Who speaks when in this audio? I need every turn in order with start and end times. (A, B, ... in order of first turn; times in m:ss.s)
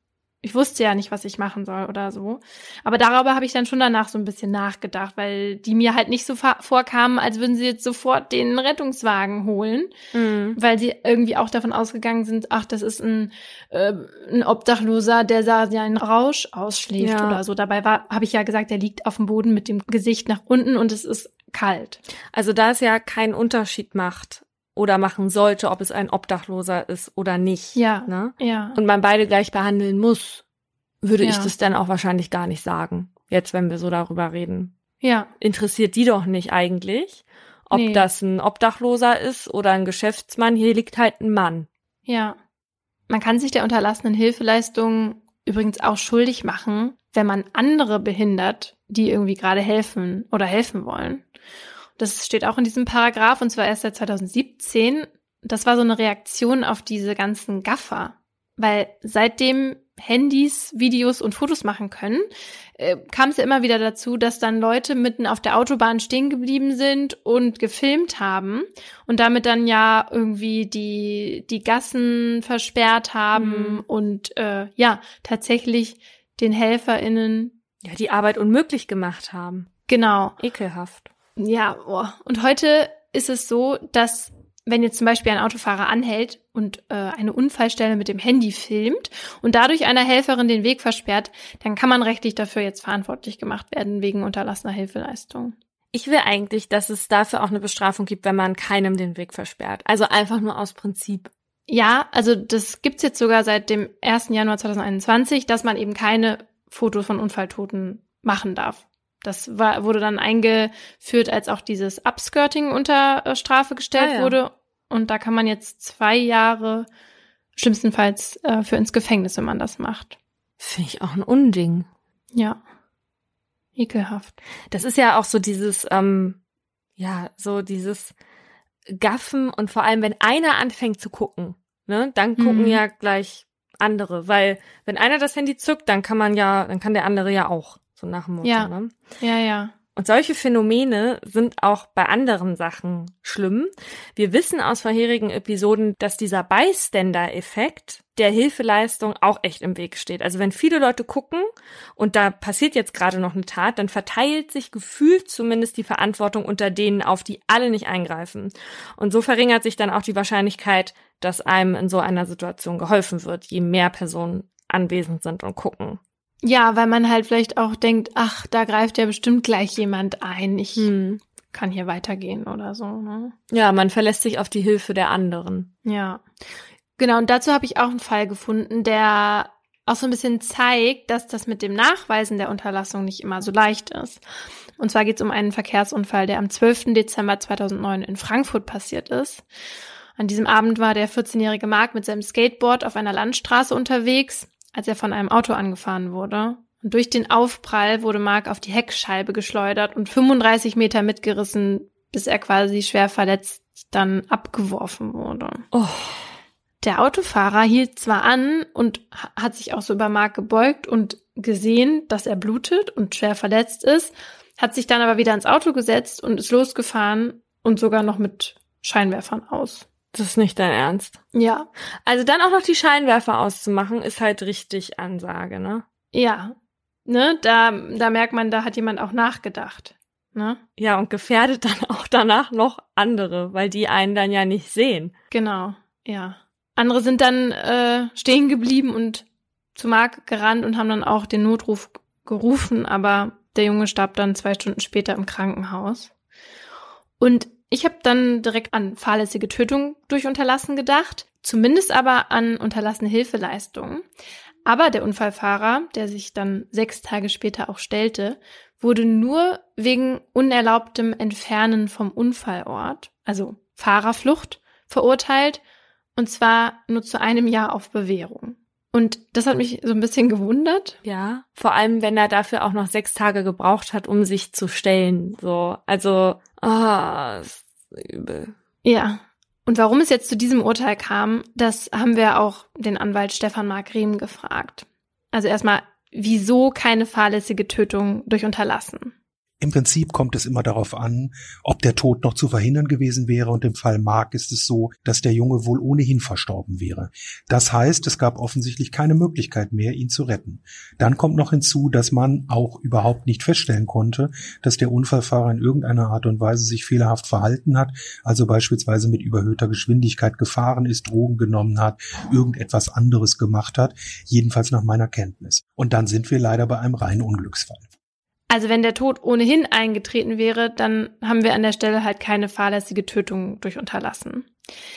0:00.4-0:09.9 A
0:10.1-0:10.6 B
0:10.6-0:22.0 A
0:17.0-0:17.4 B
0:22.3-0:30.4 B
0:27.7-0:28.8 A
0:31.0-0:34.7 B
0:31.2-0:31.5 A
0:35.0-0:35.3 A
0:35.4-0:41.7 B
0:37.7-0:38.1 A
0:42.1-0:42.4 A
0:43.1-0:51.2 A
0:52.0-1:02.2 A
1:02.8-1:17.5 A
1:13.3-1:13.8 B
1:17.8-1:19.7 B
1:19.9-1:20.4 A
1:20.4-1:21.1 B
1:21.4-1:35.6 A
1:35.9-1:41.3 B
1:41.7-1:56.9 A
1:53.9-1:54.4 B
1:57.6-2:00.2 A
2:00.6-2:01.9 B
2:02.3-2:02.6 A
2:03.8-2:04.4 A
2:04.7-2:06.4 B
2:07.0-2:08.1 B
2:08.9-2:18.9 B
2:12.4-2:12.8 A
2:18.4-2:19.7 A
2:20.0-2:46.0 B
2:46.4-2:50.9 A
2:50.8-2:51.2 B
2:51.5-2:53.3 A
2:53.5-2:55.7 B
2:55.8-2:56.2 A
2:57.0-3:04.2 A
3:04.8-3:09.4 A
3:10.2-3:25.6 A
3:25.7-3:26.2 B
3:26.8-3:39.9 A
3:40.1-3:41.2 B
3:41.3-3:41.7 A
3:42.0-3:45.8 B
3:46.1-3:46.5 A
3:47.0-3:50.6 A
3:50.8-3:55.1 B
3:55.3-4:06.1 A
4:07.2-4:14.0 A
4:14.6-4:25.6 A
4:26.2-4:31.0 A
4:31.0-4:38.5 B
4:38.8-4:49.1 A
4:49.6-5:17.9 C
5:18.5-5:24.5 A